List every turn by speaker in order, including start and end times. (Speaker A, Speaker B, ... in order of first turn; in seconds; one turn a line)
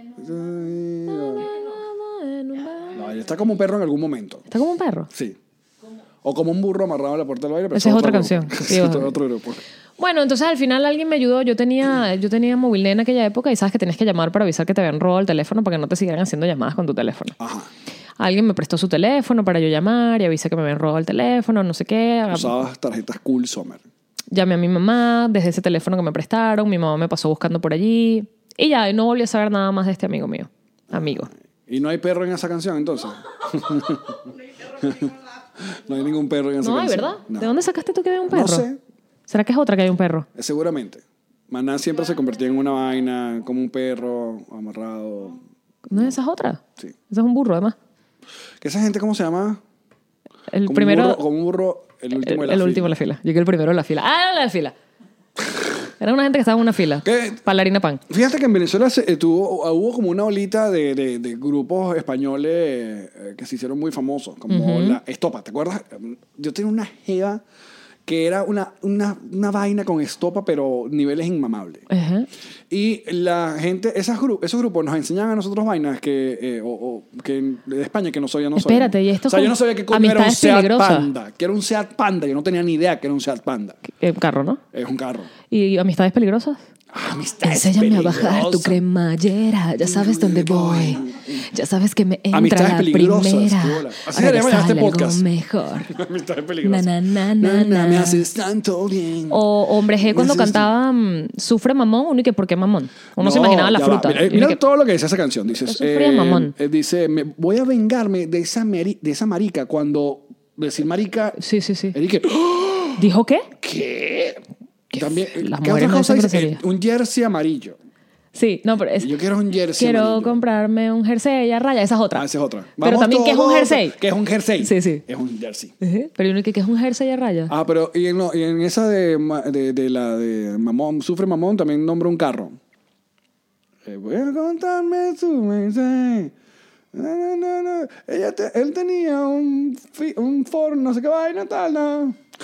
Speaker A: 0.1-1.4
Speaker B: 1.1-3.0
Speaker A: 2.9-4.4
Speaker B: 4.5-5.1
Speaker A: 5.1-5.4
Speaker A: 6.2-9.6
Speaker B: 7.7-9.1
Speaker B: 10.0-17.4
Speaker A: 17.4-17.7
Speaker B: 18.2-22.6
Speaker A: 22.3-23.8
Speaker B: 24.3-31.3
Speaker A: 30.9-37.5
Speaker B: 36.6-38.6
Speaker A: 38.3-38.8
Speaker B: 39.3-40.3
Speaker A: 40.3-45.4
Speaker B: 45.9-47.8
Speaker A: 48.6-49.6
Speaker B: 50.5-51.2
Speaker A: 50.6-53.0
Speaker B: 52.1-54.7
Speaker B: 56.0-58.0
Speaker A: 57.0-57.4
Speaker A: 58.1-67.4
Speaker B: 64.5-65.0
Speaker A: 68.0-71.9
Speaker B: 71.9-72.3
Speaker A: 72.7-83.8
Speaker B: 78.5-81.1
Speaker B: 83.9-84.6
Speaker A: 84.7-85.3
Speaker B: 85.5-86.6
Speaker A: 86.9-88.8
Speaker B: 87.4-95.9
Speaker A: 89.8-91.5
Speaker A: 92.3-95.2
Speaker A: 95.8-100.7
Speaker B: 96.6-98.2
Speaker B: 99.3-104.6
Speaker A: 103.2-111.4
Speaker B: 105.6-106.5
Speaker B: 111.4-112.0
Speaker A: 111.9-113.0
Speaker B: 113.0-113.5
Speaker A: 113.6-117.8
Speaker B: 114.9-116.6
Speaker B: 118.3-119.1
Speaker A: 119.0-120.4
Speaker B: 119.8-122.3
Speaker A: 122.1-125.7
Speaker B: 122.8-124.0
Speaker B: 124.6-125.0
Speaker B: 125.8-127.5
Speaker A: 127.5-132.6
Speaker A: 133.8-136.3
Speaker A: 136.9-142.2